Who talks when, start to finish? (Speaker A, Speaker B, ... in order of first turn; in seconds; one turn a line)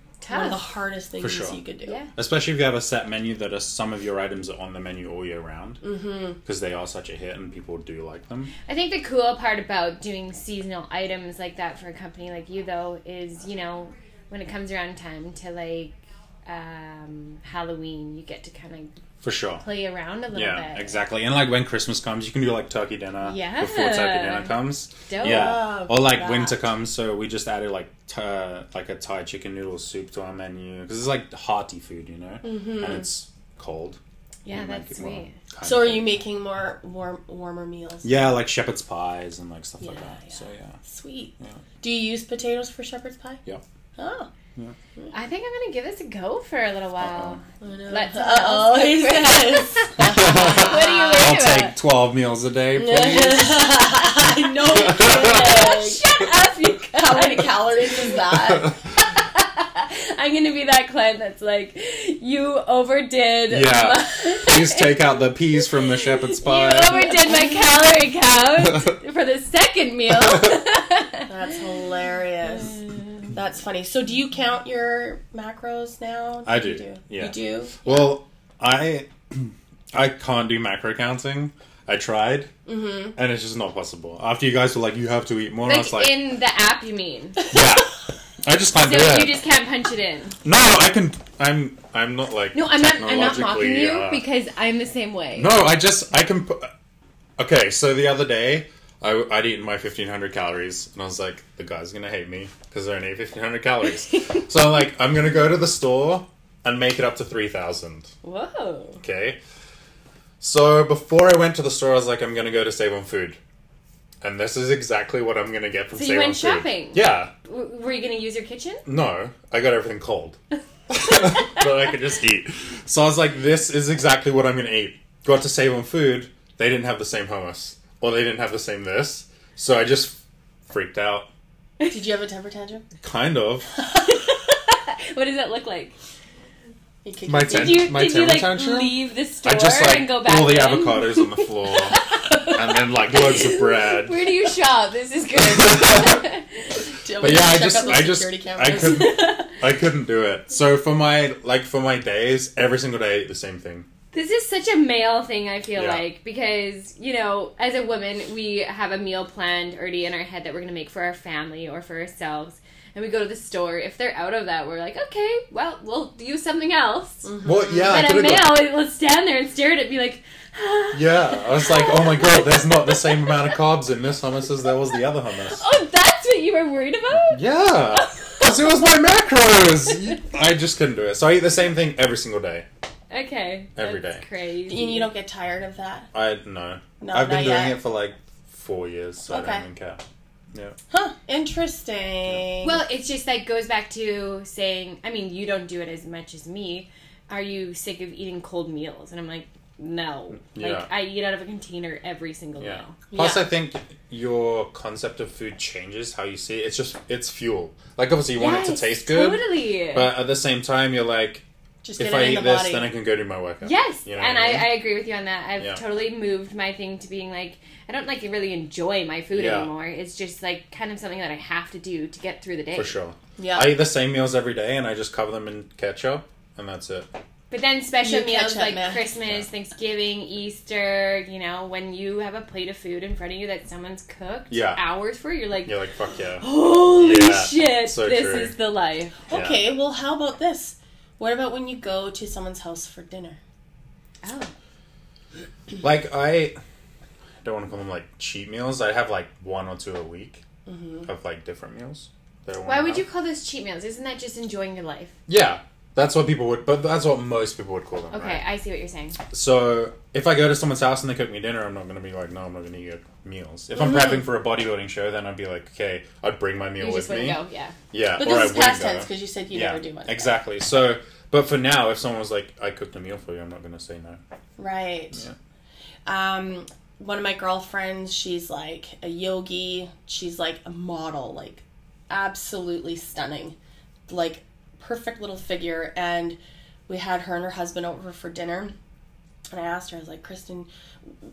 Speaker A: 0.2-0.6
Speaker B: 0.3-2.0
Speaker C: 1.2-1.6
Speaker A: 1.8-2.1
Speaker C: 2.1-5.8
Speaker B: 5.8-6.4
Speaker C: 6.5-8.5
Speaker A: 8.7-18.9
Speaker C: 19.2-19.6
Speaker A: 19.6-21.0
Speaker C: 20.3-34.0
Speaker A: 23.2-24.6
Speaker A: 25.1-25.6
Speaker B: 25.2-26.6
Speaker B: 32.4-33.1
Speaker A: 34.5-35.4
Speaker C: 34.5-36.2
Speaker B: 35.6-38.1
Speaker C: 38.0-40.8
Speaker A: 39.9-40.4
Speaker B: 40.9-43.4
Speaker B: 44.0-44.3
Speaker A: 45.1-51.8
Speaker C: 47.0-47.4
Speaker B: 47.6-50.9
Speaker C: 50.0-53.8
Speaker B: 52.8-56.0
Speaker C: 54.7-55.5
Speaker A: 55.1-65.1
Speaker B: 56.9-58.8
Speaker C: 63.5-67.1
Speaker A: 65.6-71.3
Speaker B: 71.3-72.8
Speaker A: 72.6-73.2
Speaker B: 73.3-77.8
Speaker C: 76.5-82.5
Speaker B: 82.7-83.2
Speaker C: 83.2-86.2
Speaker A: 85.6-87.5
Speaker C: 87.5-89.4
Speaker A: 88.8-90.4
Speaker C: 90.4-94.2
Speaker A: 92.5-95.6
Speaker C: 95.4-96.7
Speaker C: 97.4-108.1
Speaker A: 108.2-109.0
Speaker C: 109.0-109.4
Speaker C: 110.4-113.4
Speaker C: 114.2-117.3
Speaker A: 115.9-118.8
Speaker C: 118.9-120.4
Speaker C: 120.9-131.3
Speaker A: 121.1-121.6
Speaker B: 131.9-132.9
Speaker C: 133.0-133.7
Speaker A: 134.0-135.9
Speaker B: 137.0-137.9
Speaker C: 137.3-144.2
Speaker A: 137.5-146.8
Speaker C: 145.4-146.2
Speaker B: 147.0-149.4
Speaker C: 147.2-153.9
Speaker A: 148.8-149.5
Speaker A: 154.1-173.5
Speaker C: 155.8-156.0
Speaker B: 167.2-167.9
Speaker C: 167.4-168.6
Speaker C: 170.9-175.6
Speaker A: 175.5-178.5
Speaker C: 177.3-182.7
Speaker A: 183.1-185.1
Speaker C: 183.8-184.2
Speaker B: 184.7-186.1
Speaker C: 186.1-190.8
Speaker B: 187.0-187.8
Speaker B: 189.3-189.7
Speaker B: 190.9-192.8
Speaker A: 192.6-203.0
Speaker C: 200.5-200.9
Speaker C: 202.6-211.4
Speaker B: 203.1-203.5
Speaker A: 208.4-210.2
Speaker B: 211.8-212.9
Speaker C: 212.0-214.9
Speaker A: 213.6-223.0
Speaker C: 219.3-219.7
Speaker C: 222.8-227.1
Speaker B: 223.4-223.8
Speaker A: 227.5-235.8
Speaker B: 228.0-229.1
Speaker C: 234.5-234.8
Speaker C: 235.6-238.5
Speaker A: 236.4-239.2
Speaker B: 239.3-243.4
Speaker C: 239.3-239.6
Speaker A: 244.2-244.5
Speaker C: 245.8-246.6
Speaker C: 247.4-250.4
Speaker B: 250.7-251.1
Speaker C: 251.1-253.0
Speaker A: 252.6-255.2
Speaker C: 255.3-258.4
Speaker A: 258.1-259.2
Speaker C: 259.3-267.4
Speaker A: 266.8-267.8
Speaker C: 267.9-274.2
Speaker B: 268.2-270.4
Speaker B: 274.6-275.2
Speaker B: 276.1-283.6
Speaker B: 284.1-288.8
Speaker B: 289.5-290.7